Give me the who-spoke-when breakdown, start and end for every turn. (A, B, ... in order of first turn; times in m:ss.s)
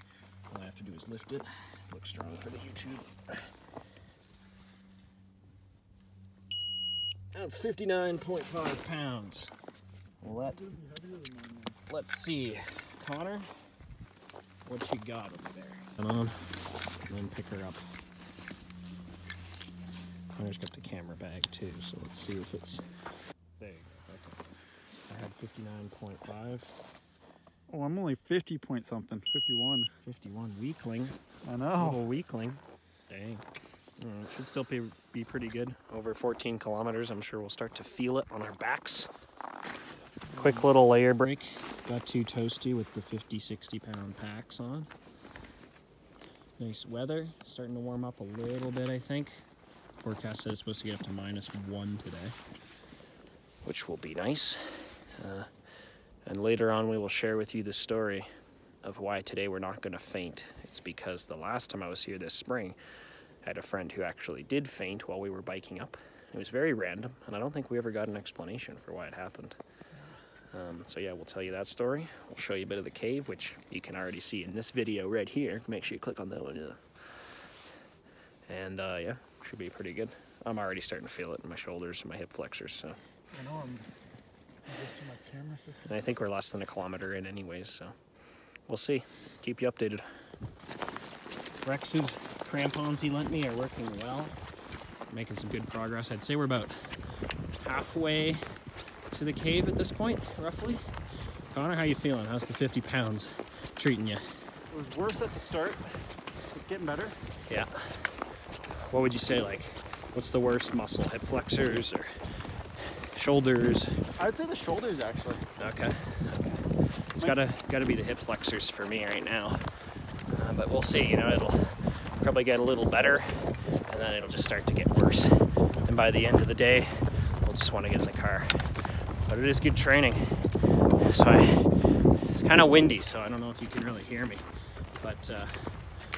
0:00.5-0:03.5 A
0:07.3-0:09.5 A
0:10.2-0:10.6 A
0:10.2-0:11.8 B
0:11.9-0:13.5 A
0:14.6-0:17.8 A
0:20.3-0:22.8 A
0:23.6-0:24.5 A
0:25.1-0:26.7 A
0:27.7-0:29.9 B
0:30.0-0:31.2 A
0:31.4-0:32.1 B
0:31.8-0:33.4 A
0:34.0-0:39.1 A
0:40.3-0:40.7 B
0:40.4-0:44.9 A
0:46.6-0:49.4 A
0:50.0-0:52.4 A
0:53.6-0:55.5 A
0:56.2-0:58.3 A
0:58.8-1:02.8 A
1:03.4-1:09.6 A
1:10.5-1:17.3 A
1:18.5-1:23.0 A
1:23.3-1:23.9 B
1:24.6-1:26.1 B
1:25.9-1:27.9 A
1:28.7-1:30.0 A
1:31.6-1:34.4 A
1:35.1-1:37.0 A
1:37.6-1:38.4 A
1:39.1-1:40.8 A
1:41.5-1:44.2 A
1:44.7-1:47.2 B
1:47.5-1:48.1 A
1:48.9-1:52.2 A
1:52.8-1:54.0 A
1:54.2-1:55.5 B
1:55.6-1:59.7 A
2:00.3-2:14.4 A
2:15.0-2:15.8 A